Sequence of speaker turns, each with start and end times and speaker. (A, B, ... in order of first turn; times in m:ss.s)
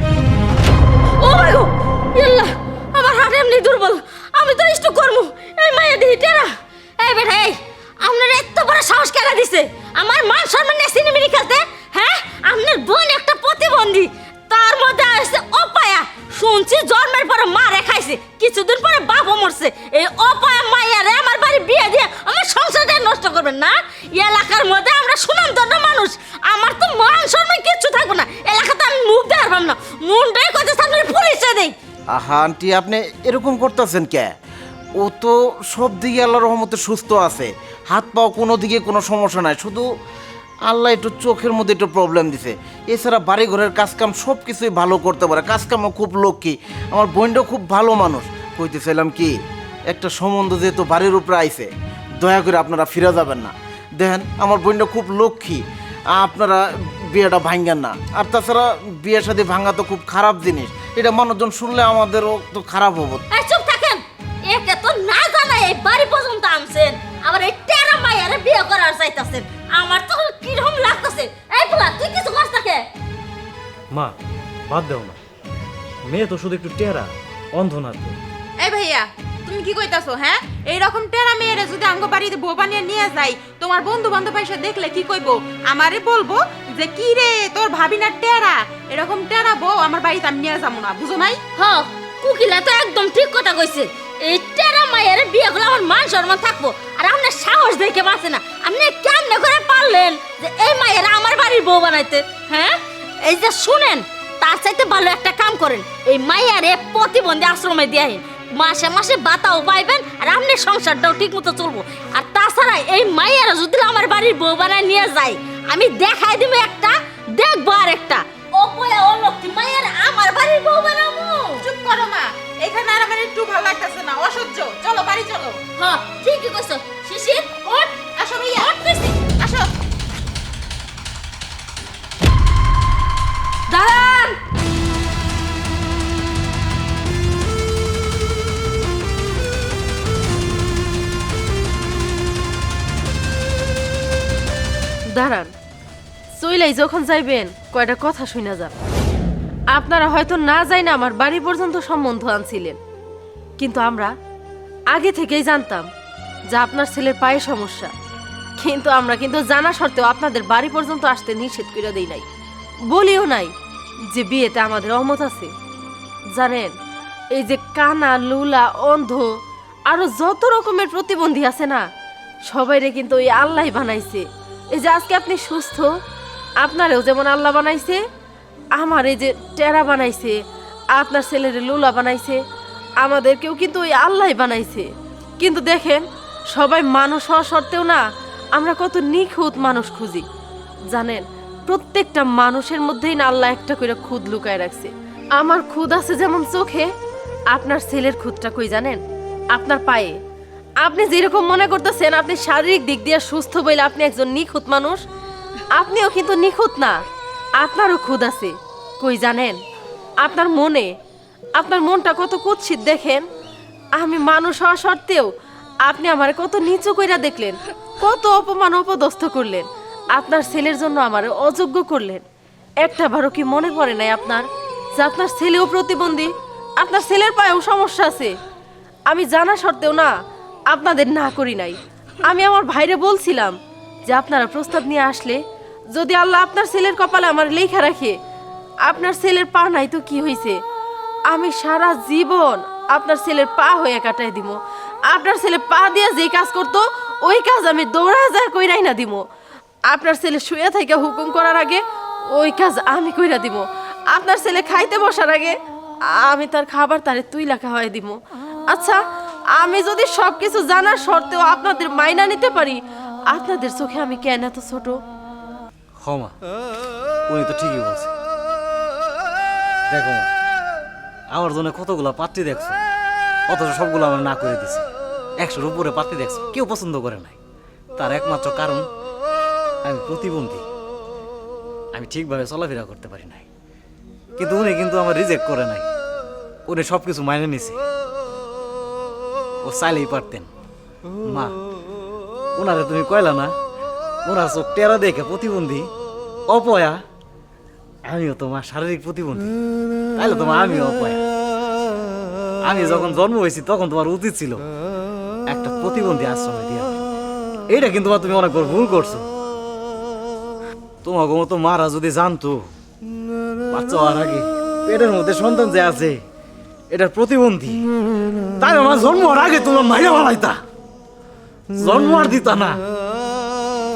0:01.2-0:31.7 A
0:32.1-0:34.3 B
0:35.0-0:39.8 B
0:40.6-0:49.4 B
0:49.9-1:03.2 B
1:03.4-1:12.8 A
1:14.7-1:15.2 C
1:16.1-1:18.2 C
1:18.6-1:31.4 D
1:31.6-2:01.6 A
2:01.6-2:05.6 D
2:05.8-2:08.0 A
2:08.1-2:09.7 D
2:08.6-2:09.1 A
2:13.7-2:14.4 A
2:25.1-2:25.5 E
2:26.4-2:28.8 E
2:29.7-2:32.8 E
2:33.6-2:34.1 E
2:34.9-2:35.9 E
2:36.5-2:37.9 E
2:38.6-2:42.3 E
2:42.9-2:43.5 E
2:44.1-2:45.5 E
2:46.3-2:46.8 E
2:47.3-2:51.9 E
2:52.5-2:55.9 E
2:56.6-2:58.0 E
2:58.8-3:00.4 E
3:00.9-3:02.4 E
3:03.0-3:08.0 E
3:08.5-3:10.2 E
3:10.9-3:16.9 E
3:17.5-3:19.0 E
3:19.5-3:20.2 E
3:20.8-3:25.0 E
3:25.7-3:27.0 E
3:27.6-3:29.6 E
3:30.2-3:30.9 E
3:31.6-3:33.2 E
3:34.0-3:42.2 E
3:42.8-3:48.4 E
3:49.1-3:50.1 E
3:50.7-3:58.2 E
3:58.8-4:00.6 E
4:01.3-4:09.2 E
4:09.9-4:19.0 E
4:19.5-4:25.0 E
4:26.0-4:26.3 C
4:27.3-4:28.1 C
4:29.9-4:30.3 C
4:31.3-4:32.8 C
4:33.5-4:34.8 C
4:35.4-4:37.4 C
4:38.0-4:38.8 C
4:39.8-4:40.6 C
4:41.9-4:43.5 C
4:44.4-4:45.9 C
4:46.7-4:47.8 C
4:49.6-4:50.5 C
4:51.3-4:51.6 C
4:52.6-4:53.5 C
4:54.2-4:55.9 C
4:56.5-4:57.0 C
4:58.1-4:59.5 C
5:00.2-5:01.2 C
5:02.7-5:04.6 C
5:05.5-5:07.0 C
5:07.7-5:09.2 C
5:11.0-5:12.6 C
5:13.7-5:16.2 C
5:16.9-5:17.8 C
5:18.6-5:20.6 C
5:21.8-5:22.8 C